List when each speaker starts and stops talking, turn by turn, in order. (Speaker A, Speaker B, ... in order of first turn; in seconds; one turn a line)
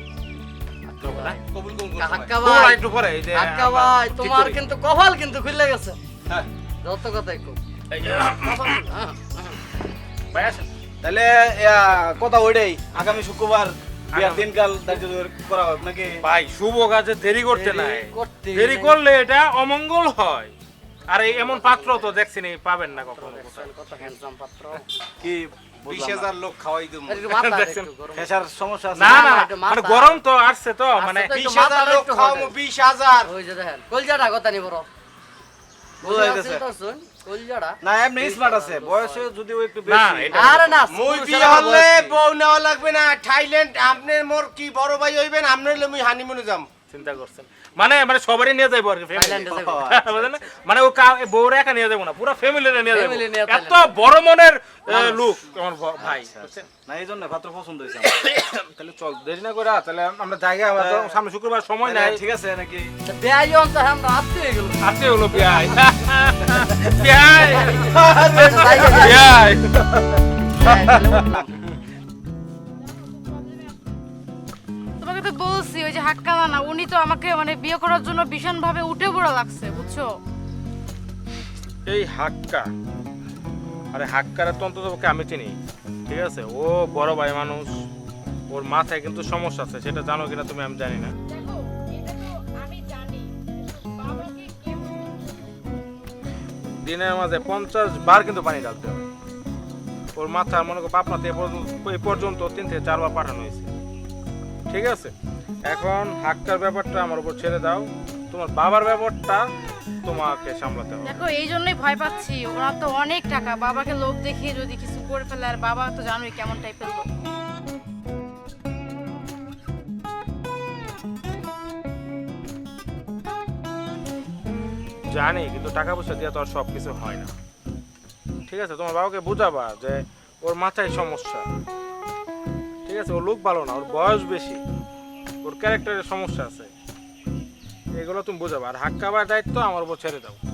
Speaker A: 0.9-1.4
Speaker B: 1.0-1.4
Speaker C: 1.4-2.4
Speaker A: 2.0-6.0
Speaker B: 2.4-4.6
Speaker A: 6.8-7.6
Speaker B: 7.9-8.8
Speaker A: 8.4-9.2
Speaker B: 10.3-10.7
Speaker D: 11.0-16.2
Speaker B: 14.1-14.5
Speaker B: 16.2-20.5
Speaker A: 17.5-19.0
Speaker B: 21.1-23.7
Speaker A: 21.2-22.2
Speaker A: 23.0-24.9
Speaker D: 25.2-26.3
Speaker C: 25.9-27.3
Speaker A: 27.1-30.2
Speaker B: 27.3-27.9
Speaker D: 28.1-29.4
Speaker B: 29.0-31.3
Speaker A: 30.9-32.5
Speaker C: 31.3-33.3
Speaker A: 33.2-34.9
Speaker D: 36.0-36.6
Speaker A: 36.0-39.3
Speaker D: 37.8-40.8
Speaker B: 39.9-40.8
Speaker A: 40.3-42.1
Speaker C: 40.9-46.7
Speaker D: 41.3-42.0
Speaker B: 46.9-56.7
Speaker A: 49.1-50.0
Speaker D: 49.5-50.3
Speaker A: 52.9-54.0
Speaker A: 54.9-55.3
Speaker D: 56.0-58.2
Speaker B: 58.0-62.2
Speaker D: 60.8-61.2
Speaker D: 61.9-62.9
Speaker A: 63.0-65.8
Speaker B: 64.8-69.9
Speaker A: 67.5-69.3
Speaker D: 67.8-69.2
Speaker A: 70.3-71.6
Speaker E: 75.0-80.2
Speaker B: 81.9-82.7
Speaker B: 83.9-87.7
Speaker B: 88.5-91.1
Speaker E: 91.3-95.1
Speaker B: 96.8-99.0
Speaker B: 100.2-103.7
Speaker B: 104.7-105.1
Speaker B: 105.7-109.4
Speaker B: 110.0-111.2
Speaker E: 111.0-117.1
Speaker B: 125.1-127.3
Speaker B: 128.5-131.4
Speaker B: 132.9-134.6
Speaker B: 135.4-136.7
Speaker B: 138.0-140.4